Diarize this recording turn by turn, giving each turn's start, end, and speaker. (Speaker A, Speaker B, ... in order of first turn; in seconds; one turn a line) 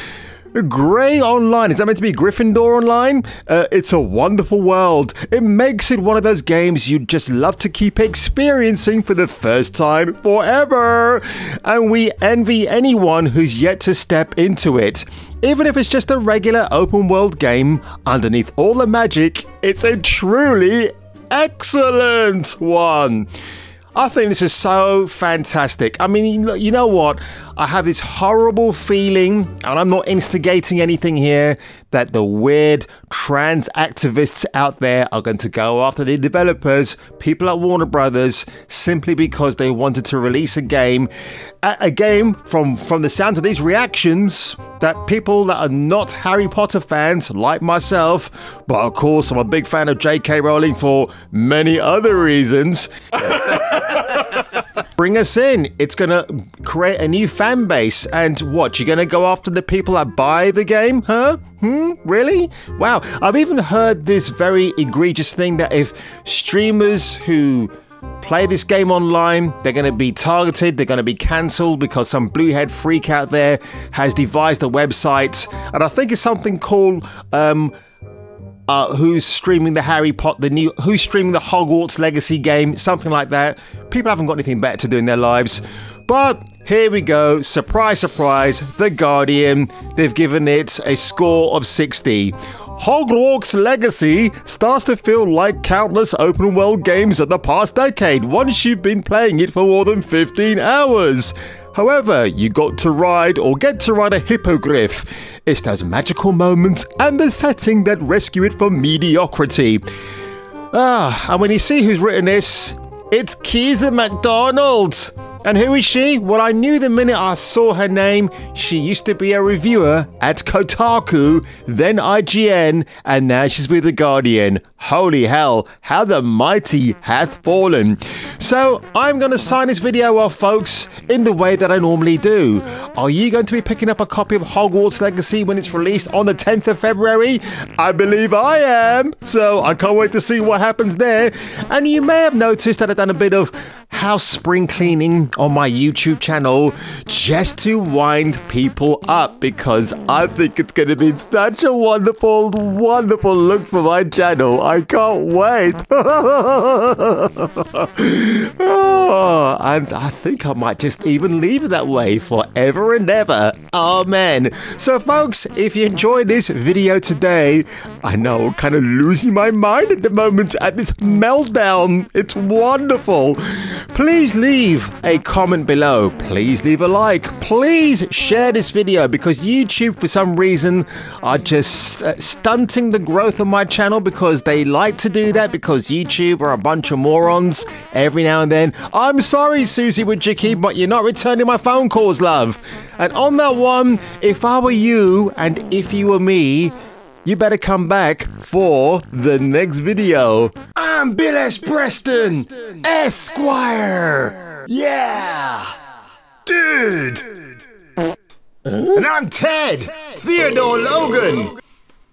Speaker A: 0.5-23.3
Speaker A: 23.9-41.1
Speaker A: 41.6-54.0
Speaker A: 55.0-77.7
Speaker A: 78.7-109.8
Speaker A: 110.7-173.4
Speaker A: 173.9-196.7
Speaker A: 197.2-205.7
Speaker A: 206.5-207.2
Speaker A: 208.8-211.5